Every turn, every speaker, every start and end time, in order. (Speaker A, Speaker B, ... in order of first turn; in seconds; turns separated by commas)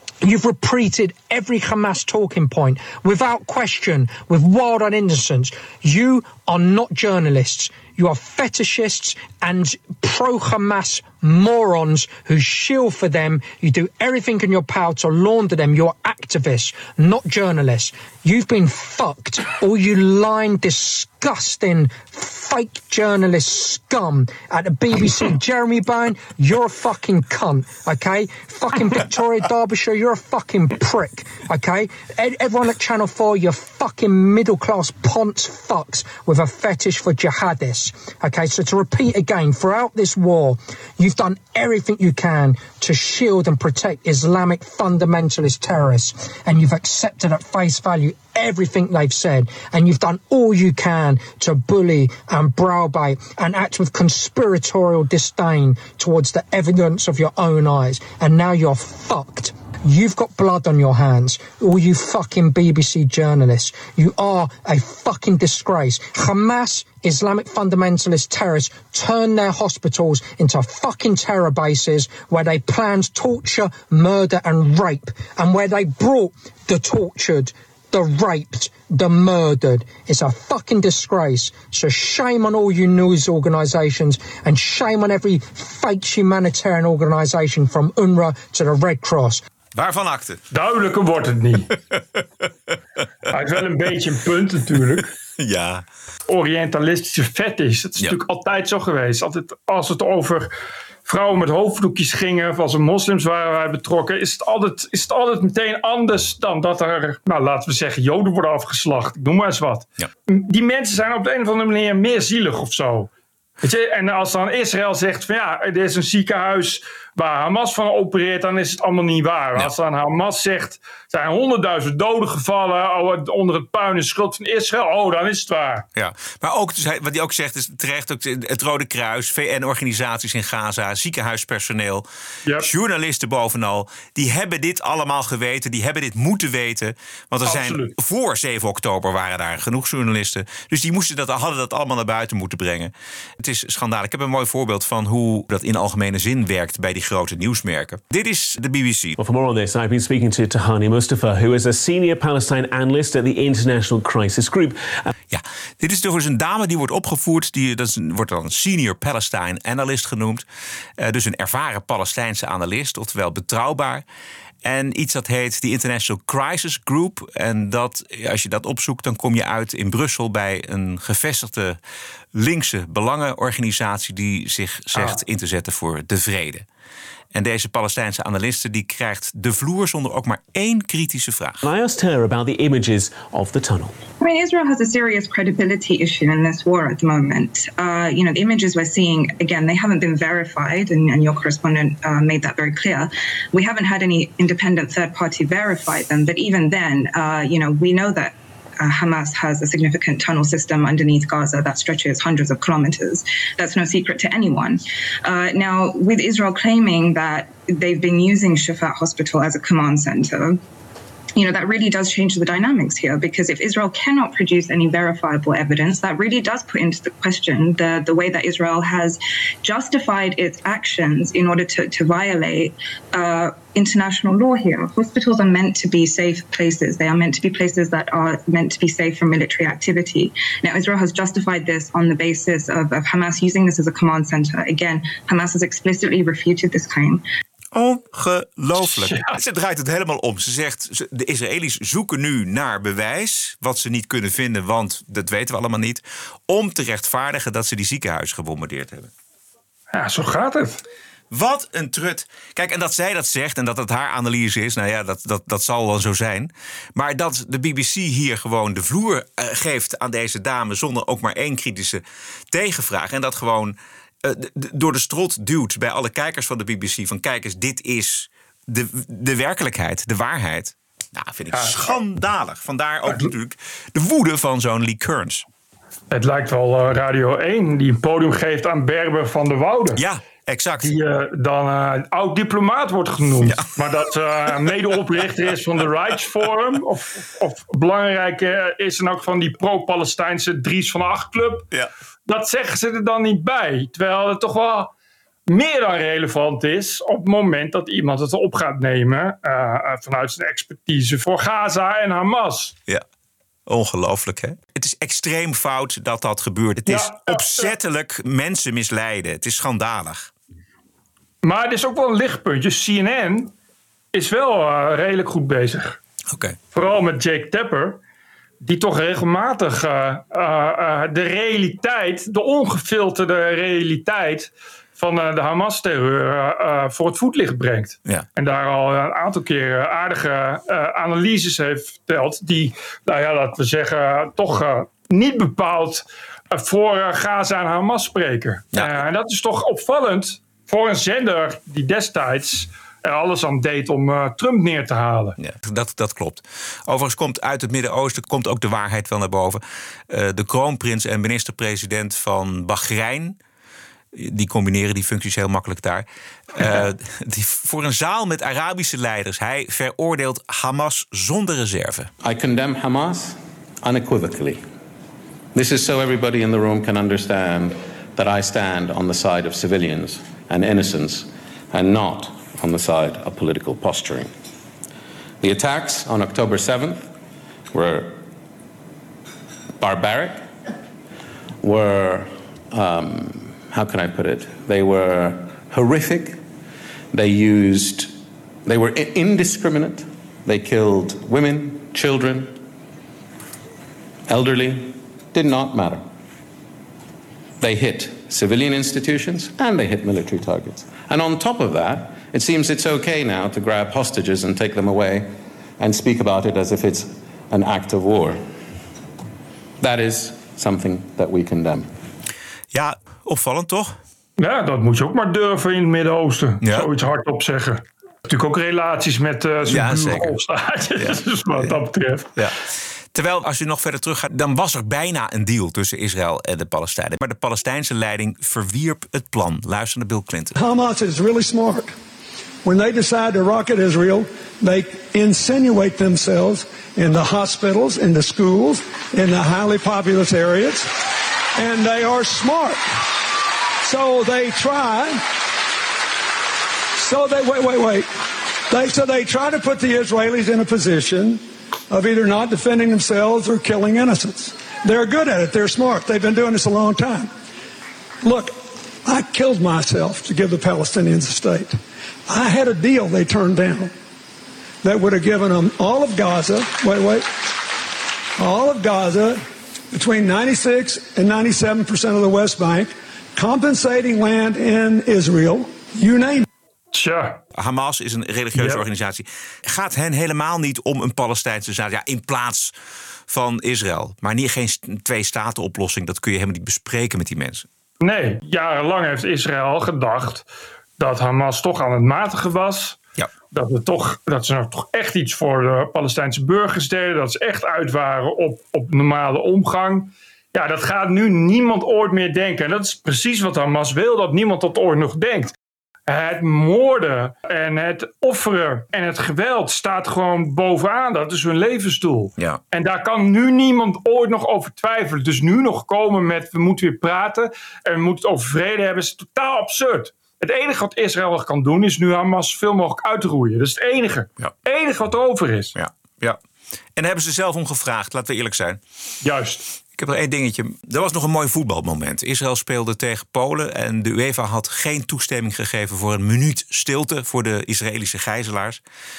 Speaker A: 0.2-89.4, Speaker B: 89.7-90.4, Speaker C: 90.5-91.7, Speaker C: 93.3-95.1, Speaker B: 95.4-95.8, Speaker C: 96.3-100.5, Speaker C: 101.0-113.1, Speaker C: 113.6-125.9, Speaker B: 126.0-132.1, Speaker B: 132.6-149.2, Speaker C: 137.4-137.9, Speaker D: 149.2-155.1, Speaker B: 155.3-160.4, Speaker B: 161.0-164.0, Speaker B: 164.6-171.8, Speaker B: 172.3-176.7, Speaker B: 177.3-181.6, Speaker D: 181.6-184.0, Speaker E: 184.2-210.6, Speaker E: 211.3-237.2, Speaker B: 237.7-249.1, Speaker C: 238.9-239.2, Speaker C: 249.9-250.8, Speaker B: 251.3-275.4, Speaker C: 271.5-272.0, Speaker C: 276.1-280.0, Speaker B: 279.9-280.9, Speaker C: 280.8-291.7, Speaker B: 283.4-283.7, Speaker C: 292.3-294.9, Speaker C: 295.5-302.7, Speaker B: 303.7-310.3, Speaker C: 306.9-307.7, Speaker C: 311.4-313.5, Speaker C: 314.1-316.0, Speaker B: 316.3-316.6, Speaker C: 316.7-318.0, Speaker C: 318.6-345.4, Speaker B: 345.4-353.4, Speaker B: 354.1-362.1, Speaker F: 362.2-364.6, Speaker F: 365.5-374.3, Speaker F: 375.4-377.1, Speaker F: 377.7-378.2, Speaker F: 379.8-380.5, Speaker F: 381.6-386.4, Speaker F: 387.1-388.1, Speaker F: 388.6-392.6, Speaker F: 394.3-396.1, Speaker F: 397.6-408.4, Speaker F: 409.8-411.9, Speaker B: 412.7-414.0, Speaker C: 414.4-422.3, Speaker B: 416.6-416.9, Speaker B: 419.7-420.4, Speaker B: 421.0-421.7, Speaker B: 423.1-430.5, Speaker G: 430.5-431.9, Speaker G: 432.6-440.9, Speaker G: 441.6-442.8, Speaker G: 443.8-445.2, Speaker G: 446.9-448.1, Speaker G: 448.7-457.3, Speaker G: 458.2-461.8, Speaker G: 462.3-463.9, Speaker G: 464.8-467.3, Speaker G: 468.4-476.5, Speaker C: 476.9-477.4, Speaker B: 477.5-482.7, Speaker C: 478.5-478.8, Speaker B: 483.3-487.7, Speaker C: 488.0-490.4, Speaker C: 491.0-493.0, Speaker C: 493.5-505.5, Speaker C: 506.1-525.7, Speaker B: 525.7-526.4, Speaker B: 527.0-528.8, Speaker C: 529.2-529.6, Speaker B: 530.0-538.8